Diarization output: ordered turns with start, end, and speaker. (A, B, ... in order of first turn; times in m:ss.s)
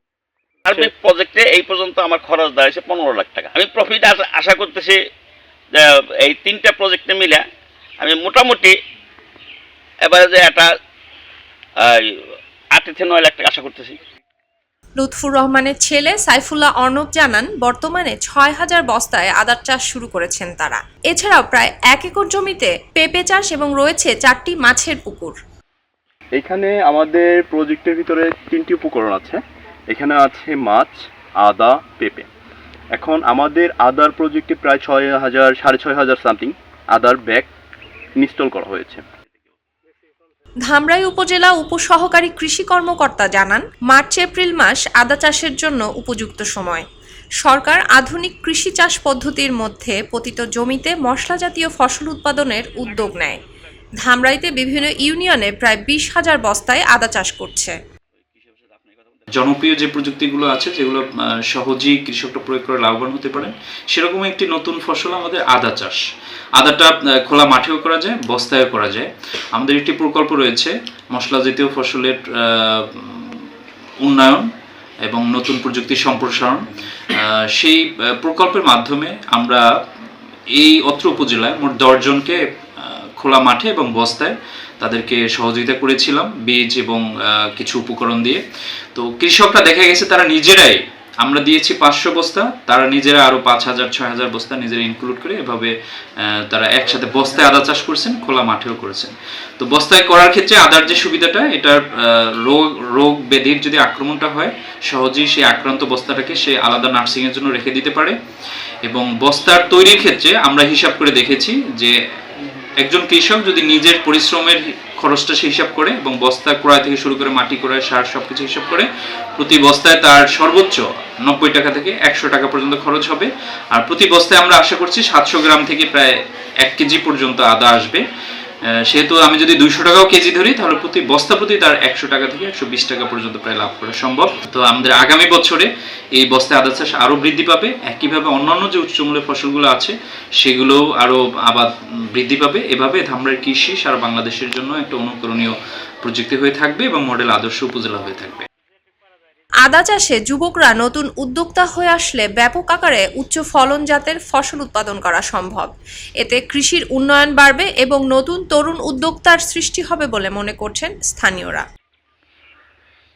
0:00.7-0:05.0 A
0:05.7-0:07.4 A
0:08.0-0:08.8 A
0:10.0-0:10.7 A
0:11.8-0:12.2 A
0:12.7-0:14.0 A
0:15.0-0:25.4 B
0:26.4-0:32.3 C
0:32.9-0:37.5 C
0:38.2-0:39.0 C
0:40.7-0:46.8 B
0:47.4-0:53.4 B
0:54.0-0:57.8 B
0:58.4-0:59.2 A
0:59.3-1:06.0 D
1:06.6-1:13.4 D
1:14.0-1:14.5 D
1:15.1-1:19.6 D
1:20.6-1:28.4 D
1:29.0-1:35.7 D
1:36.2-1:48.2 D
1:48.9-1:51.9 D
1:52.8-2:08.0 D
2:08.9-2:28.5 D
2:29.6-2:41.6 B